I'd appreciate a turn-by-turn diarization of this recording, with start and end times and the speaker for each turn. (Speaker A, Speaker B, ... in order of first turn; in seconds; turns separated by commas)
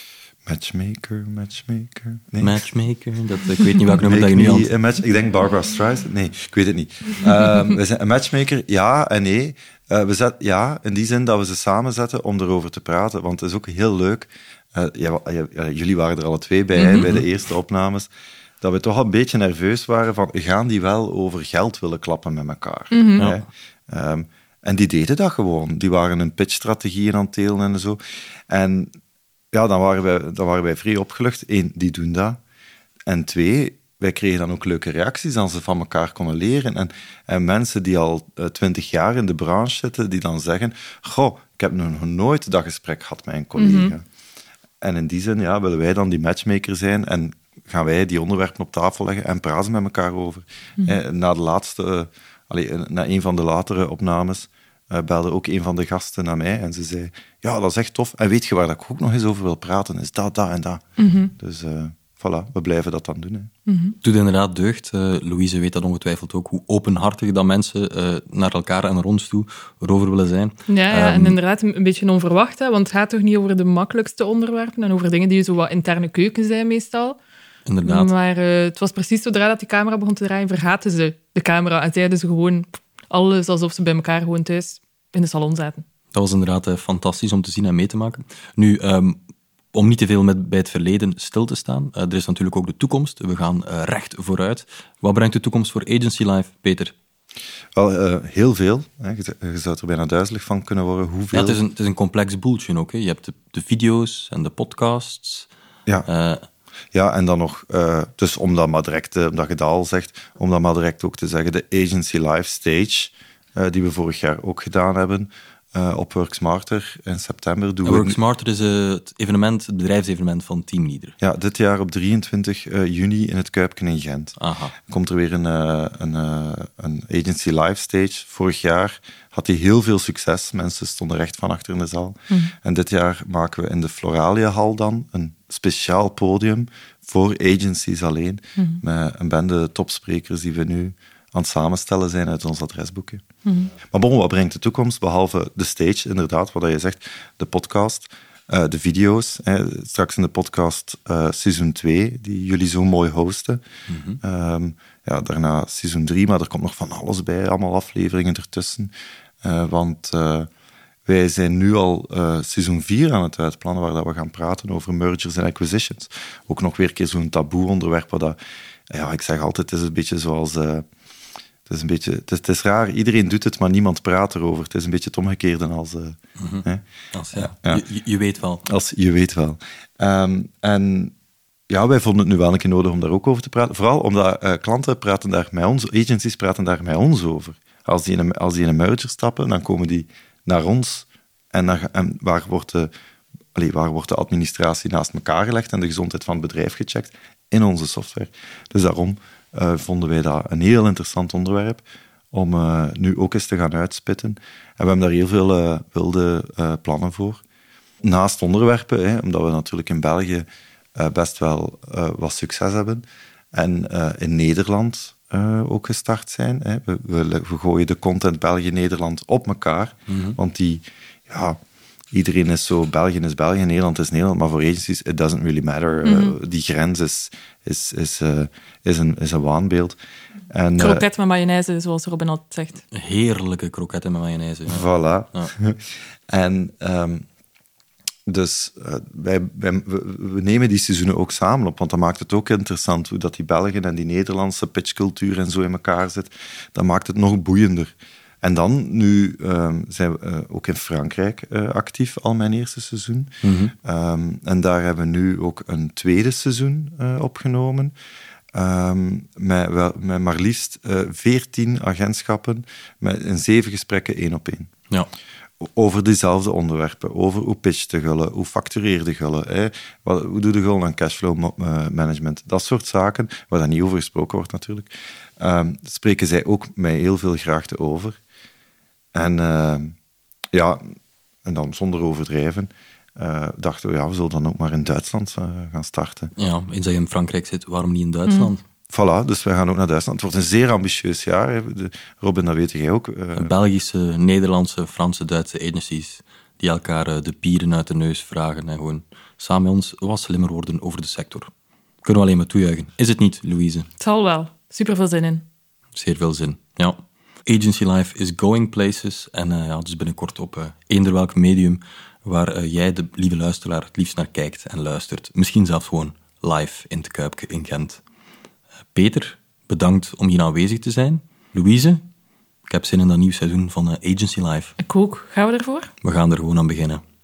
Speaker A: 0.5-2.6, Speaker B: 2.4-4.7, Speaker A: 3.9-18.1, Speaker C: 16.8-17.1, Speaker B: 16.9-17.2, Speaker A: 18.6-28.9, Speaker C: 22.9-23.3, Speaker B: 23.2-23.4, Speaker A: 29.5-32.4, Speaker A: 33.1-44.0, Speaker C: 43.6-43.9, Speaker A: 44.8-60.8, Speaker C: 61.0-61.3, Speaker A: 61.4-63.5, Speaker C: 63.7-64.0, Speaker B: 64.0-71.4, Speaker C: 70.7-77.2, Speaker B: 77.7-78.1, Speaker C: 77.8-85.8, Speaker B: 86.1-89.2, Speaker B: 89.7-96.9, Speaker A: 97.8-101.6, Speaker B: 101.3-105.5, Speaker B: 106.0-106.5, Speaker A: 106.9-118.2, Speaker B: 117.8-121.2, Speaker A: 121.2-124.4, Speaker B: 124.4-124.8, Speaker A: 124.9-143.2, Speaker C: 143.4-143.7, Speaker A: 143.8-153.6, Speaker B: 153.9-154.2, Speaker A: 154.2-158.9, Speaker A: 159.4-160.5, Speaker A: 161.1-168.4, Speaker A: 168.9-170.8, Speaker A: 171.7-176.8, Speaker B: 176.4-178.7, Speaker A: 177.3-177.8, Speaker A: 178.7-181.1, Speaker A: 181.7-192.9, Speaker A: 193.6-207.4, Speaker A: 208.0-213.0, Speaker A: 213.5-221.6, Speaker B: 220.1-220.4, Speaker A: 222.1-230.0, Speaker C: 226.0-226.4, Speaker A: 230.5-231.1, Speaker C: 230.8-232.8, Speaker B: 232.9-235.5, Speaker A: 234.7-237.2, Speaker A: 238.3-257.9, Speaker B: 253.4-253.7, Speaker A: 258.5-264.7, Speaker A: 265.6-278.2, Speaker A: 279.1-279.9, Speaker A: 280.5-280.8, Speaker A: 281.4-286.3, Speaker B: 286.4-288.6, Speaker C: 288.3-288.5, Speaker A: 288.9-293.5, Speaker B: 293.4-301.5, Speaker B: 302.0-303.9, Speaker C: 304.0-305.4, Speaker B: 306.0-318.0, Speaker B: 318.9-322.0, Speaker B: 322.7-324.7, Speaker C: 324.8-325.9, Speaker B: 326.0-327.0